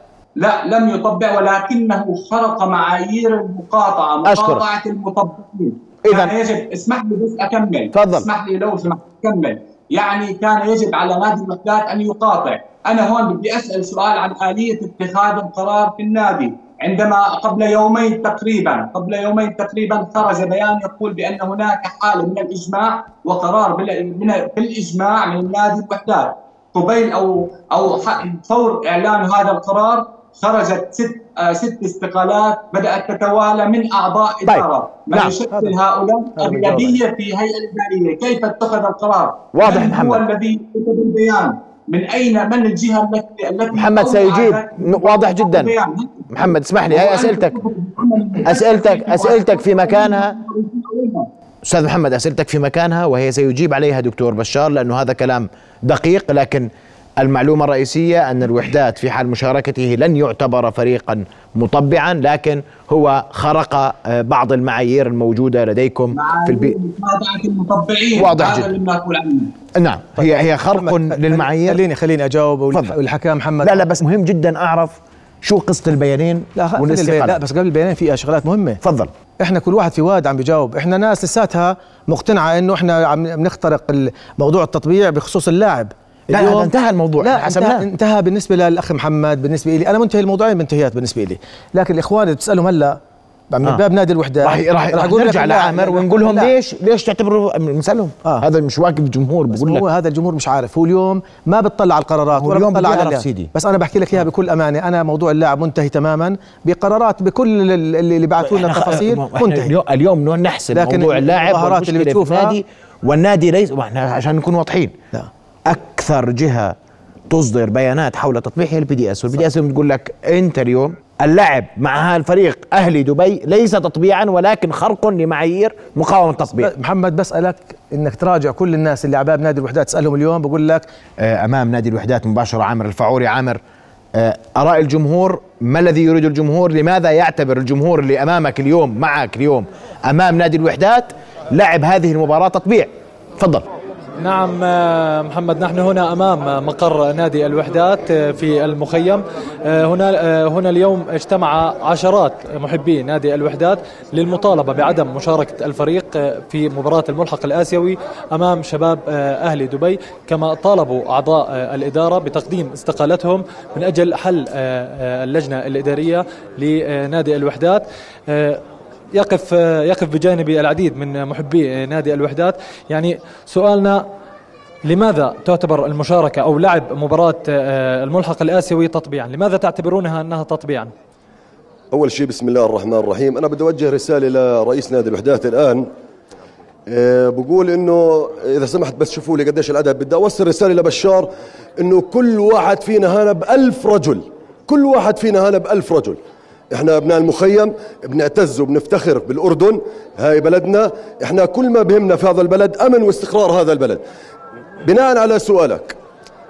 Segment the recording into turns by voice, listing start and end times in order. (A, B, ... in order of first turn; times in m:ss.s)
0:00.4-0:51.3 A
0:04.2-0:04.6 B
0:06.0-0:06.3 B
0:07.9-0:08.3 B
0:34.4-0:35.3 B
0:35.5-0:35.8 C
0:36.4-0:37.0 C
0:39.5-0:40.2 B
0:43.7-0:45.7 B
0:46.3-0:47.6 B
0:48.4-0:50.4 B
0:51.6-1:06.8 B
1:06.1-1:09.5 A
1:08.2-1:08.7 B
1:09.7-1:11.8 B
1:10.2-1:13.8 C
1:13.6-1:17.4 B
1:16.5-1:18.8 C
1:18.8-1:19.1 B
1:19.4-1:33.0 C
1:26.3-1:27.8 B
1:33.5-1:36.5 C
1:34.4-1:39.8 B
1:39.5-1:49.7 C
1:42.3-1:43.5 B
1:48.4-1:54.9 B
1:50.7-1:52.6 C
1:55.6-1:56.7 B
1:57.3-2:06.7 B
2:06.5-2:10.8 C
2:11.2-2:13.6 B
2:14.1-2:23.6 B
2:24.2-2:54.0 D
2:54.8-3:00.9 D
3:01.9-3:05.9 E
3:06.9-3:16.2 E
3:16.7-3:24.0 E
3:24.8-3:26.0 E